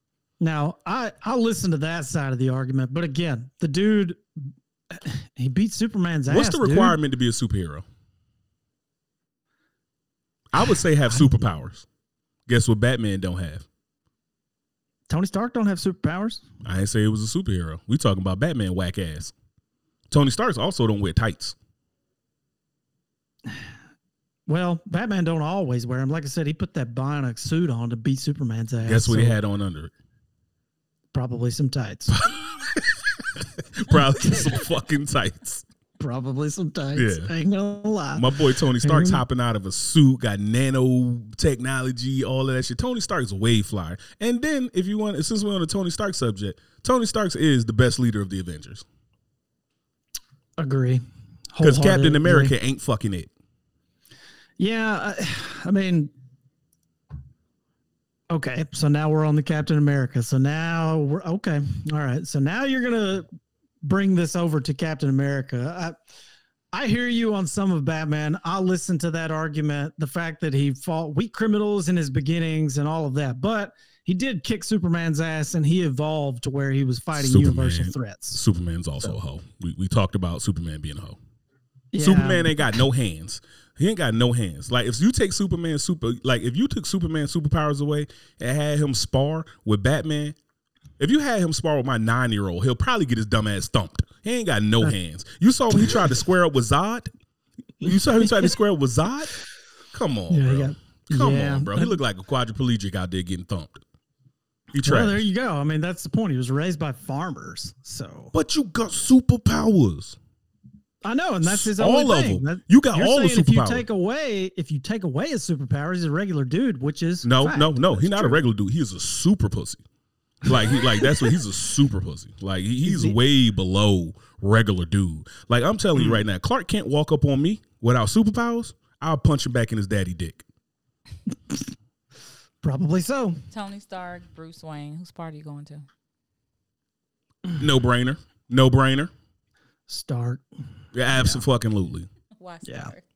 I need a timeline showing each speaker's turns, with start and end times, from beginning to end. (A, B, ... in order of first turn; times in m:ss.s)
0:00.4-0:07.0 A
0:06.3-0:07.8 B
0:10.5-0:11.8 B
0:12.5-0:13.7 B
0:15.1-0:16.4 A
0:16.6-0:19.3 B
0:20.1-0:21.6 B
0:24.5-0:29.3 A
0:28.8-0:29.9 B
0:31.1-0:32.2 A
0:32.1-0:35.6 B
0:36.0-0:39.2 A
0:37.0-0:37.3 B
0:38.2-0:48.8 B
0:50.6-0:52.5 A
0:51.6-0:53.3 B
0:54.6-0:56.1 A
0:58.3-1:03.2 A
1:03.8-1:06.0 A
1:06.7-1:18.4 A
1:17.1-1:21.2 B
1:21.9-1:22.7 A
1:22.0-1:30.4 B
1:31.0-1:37.1 B
1:37.8-1:39.3 B
1:37.9-1:38.5 A
1:39.9-1:43.8 B
1:40.3-1:42.0 A
1:44.7-1:45.2 B
1:44.8-1:48.3 A
1:48.3-1:50.2 B
1:51.0-1:58.4 A
1:51.4-1:53.8 B
1:57.2-1:59.8 B
2:00.4-2:10.4 B
2:00.5-2:01.3 A
2:02.8-2:03.2 A
2:12.6-2:13.4 A
2:13.5-2:15.8 C
2:17.6-2:19.1 B
2:19.9-2:20.4 A
2:20.9-2:22.1 B
2:21.1-2:21.4 A
2:22.4-2:23.0 C
2:22.6-2:22.9 A